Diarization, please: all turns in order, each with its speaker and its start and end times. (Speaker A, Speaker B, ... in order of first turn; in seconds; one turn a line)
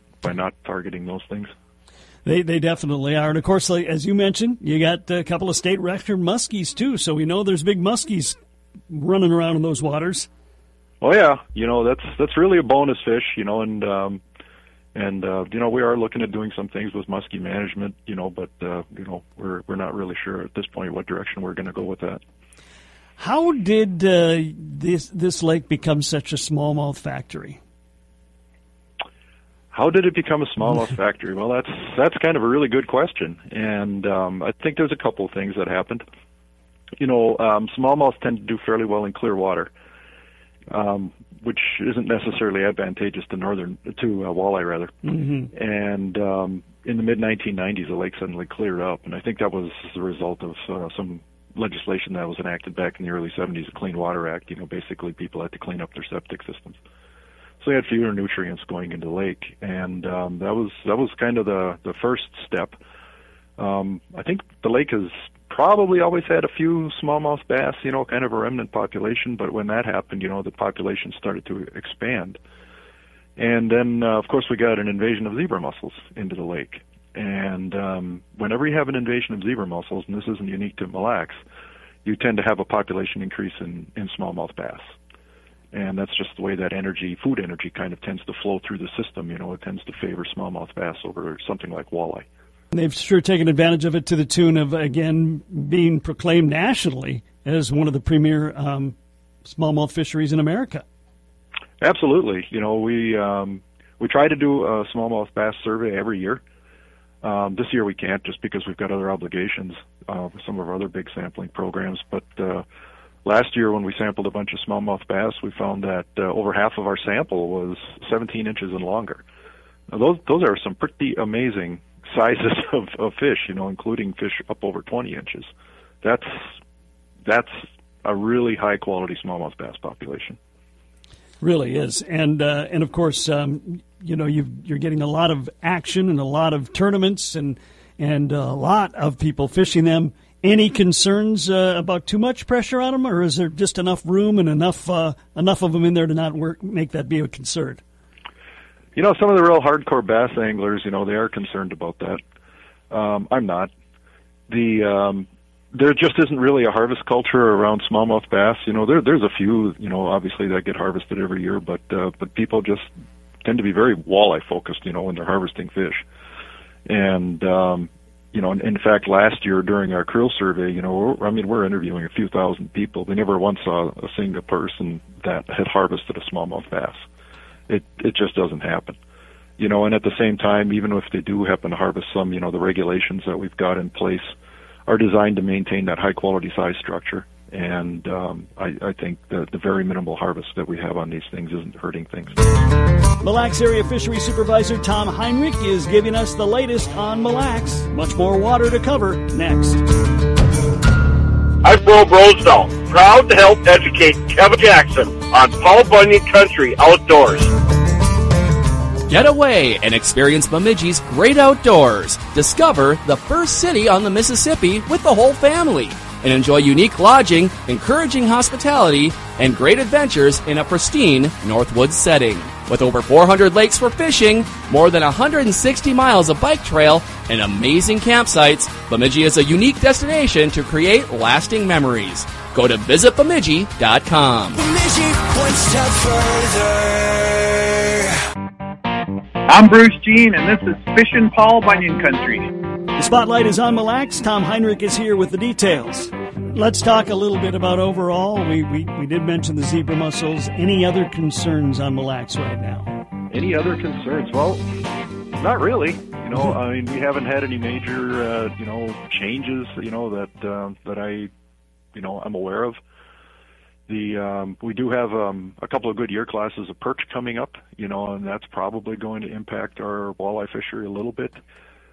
Speaker A: 0.2-1.5
Speaker B: 2.2-8.4
Speaker B: 8.9-10.3
Speaker A: 11.0-14.2
Speaker A: 14.9-22.2
Speaker B: 23.2-27.6
Speaker A: 29.7-36.0
Speaker A: 37.0-39.7
Speaker A: 40.7-45.0
Speaker B: 45.1-45.5
Speaker A: 45.5-56.8
Speaker A: 57.6-62.8
Speaker A: 63.6-72.4
Speaker A: 73.4-81.4
Speaker A: 82.0-84.8
Speaker A: 85.7-92.3
Speaker B: 92.7-99.0
Speaker B: 99.5-100.8
Speaker A: 101.8-106.4
Speaker A: 107.2-112.7
Speaker A: 113.2-119.2
Speaker A: 119.9-125.5
Speaker A: 126.0-126.5
Speaker A: 127.2-130.4
Speaker B: 131.4-147.8
Speaker A: 149.0-152.2
Speaker A: 152.9-153.7
Speaker A: 154.5-162.9
Speaker A: 163.4-166.0
Speaker A: 166.9-177.1
Speaker A: 177.7-179.0
Speaker A: 179.6-184.3
Speaker A: 184.9-192.4
Speaker B: 193.2-199.8
Speaker C: 201.6-207.5
Speaker D: 209.1-234.6
Speaker E: 234.6-238.1
Speaker F: 239.5-242.5
Speaker B: 243.0-252.9
Speaker A: 253.3-254.6
Speaker A: 255.4-261.3
Speaker A: 261.9-262.8
Speaker A: 263.9-271.4